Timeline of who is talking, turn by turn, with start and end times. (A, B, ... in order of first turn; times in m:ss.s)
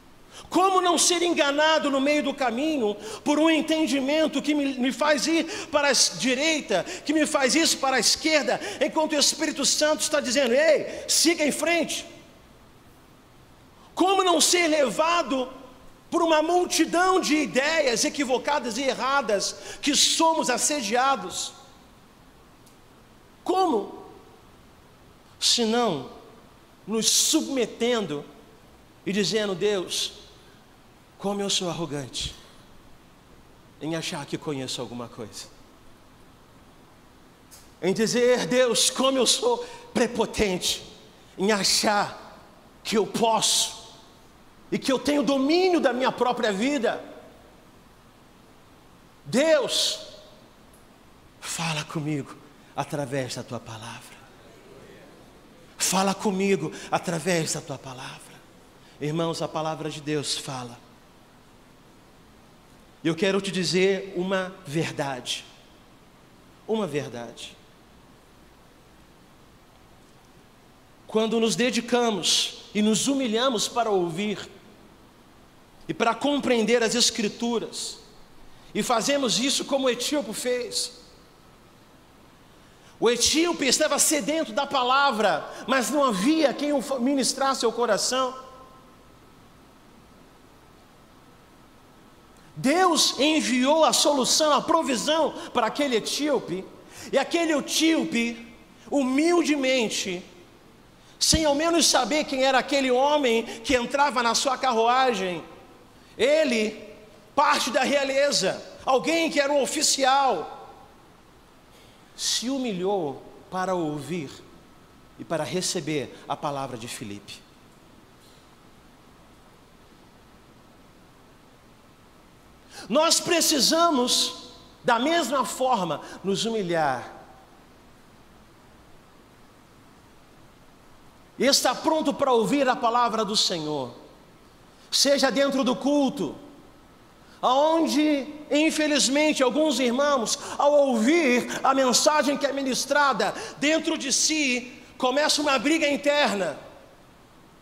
0:00.5-0:12.1 A
0:13.9-0:15.5 A
0:16.1-0:21.5 A
0:23.4-0:24.1 A
0:25.4-0:26.1 A
0:26.9-0:28.2 A
0:29.0-0:30.2 A
0:31.2-0:32.4 A
0:33.8-0:35.5 A
0:37.8-0:40.9 A
0:41.4-0:42.2 A
0:42.8-0:43.8 A
0:44.7-0:47.0 A
0:49.2-0:50.0 A
0:51.4-0:54.2 A
0:55.8-0:58.4 A
0:59.0-1:00.8 A
1:03.0-1:05.4 A
1:06.7-1:07.6 A
1:11.1-1:14.5 A
1:15.9-1:18.0 A
1:18.7-1:21.0 A
1:23.0-1:28.4 A
1:32.6-1:40.2 A
1:41.2-1:45.4 A
1:46.2-1:50.6 A
1:52.2-1:54.4 A
1:55.2-1:57.4 A
2:02.9-2:07.1 A
2:11.4-2:14.0 A
2:14.9-2:16.4 A
2:17.4-2:26.6 A